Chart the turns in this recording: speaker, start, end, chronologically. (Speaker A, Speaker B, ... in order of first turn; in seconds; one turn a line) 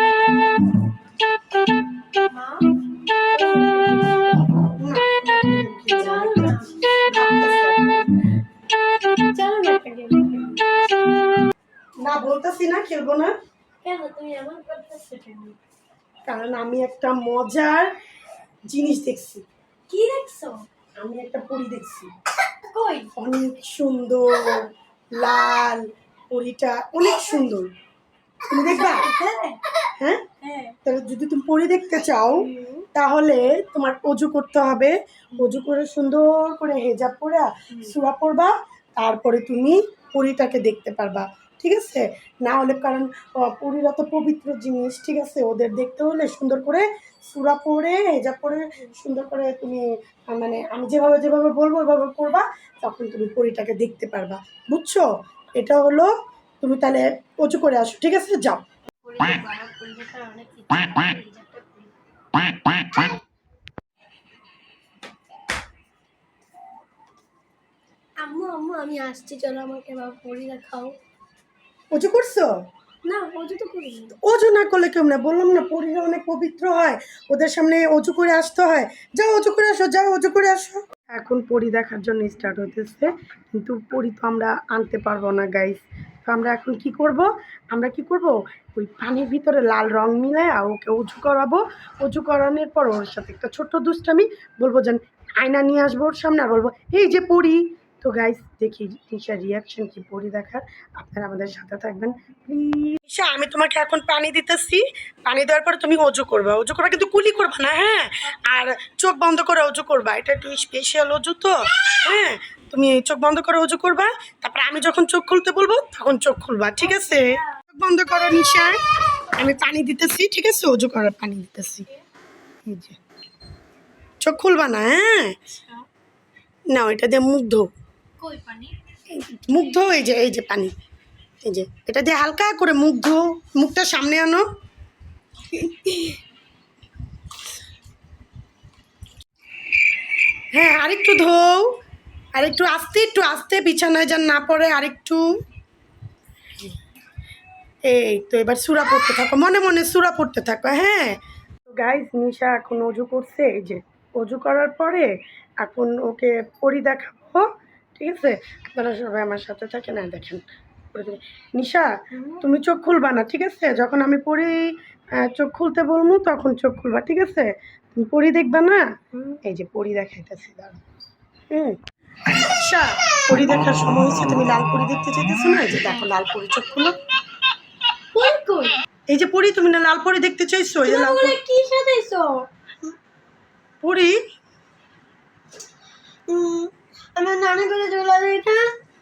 Speaker A: 2.2-2.7
Speaker A: 3.3-4.4
Speaker B: 4.6-8.2
Speaker A: 5.9-7.2
Speaker A: 9.3-10.8
Speaker B: 12.0-13.3
Speaker A: 13.8-15.6
Speaker B: 16.3-17.9
Speaker B: 18.7-19.4
Speaker A: 19.9-20.6
Speaker B: 21.0-22.1
Speaker A: 22.6-23.1
Speaker B: 23.1-27.7
Speaker B: 28.4-29.1
Speaker A: 28.6-29.6
Speaker B: 30.0-30.3
Speaker A: 30.4-30.8
Speaker B: 30.8-58.6
Speaker A: 32.3-32.9
Speaker A: 59.0-63.2
Speaker A: 68.2-71.0
Speaker B: 71.9-72.5
Speaker A: 73.0-74.2
Speaker B: 74.2-118.8
Speaker A: 116.8-117.5
Speaker B: 119.4-121.9
Speaker B: 122.7-123.0
Speaker B: 124.2-125.4
Speaker A: 125.5-125.8
Speaker B: 126.7-127.7
Speaker A: 128.2-128.8
Speaker B: 129.1-130.7
Speaker B: 131.4-134.4
Speaker A: 135.6-136.2
Speaker B: 140.5-141.8
Speaker B: 142.3-145.4
Speaker B: 147.8-168.9
Speaker A: 162.1-162.4
Speaker B: 169.4-170.8
Speaker B: 171.5-177.0
Speaker A: 178.1-178.8
Speaker B: 179.1-181.4
Speaker A: 180.8-182.9
Speaker B: 183.8-184.2
Speaker A: 186.3-188.7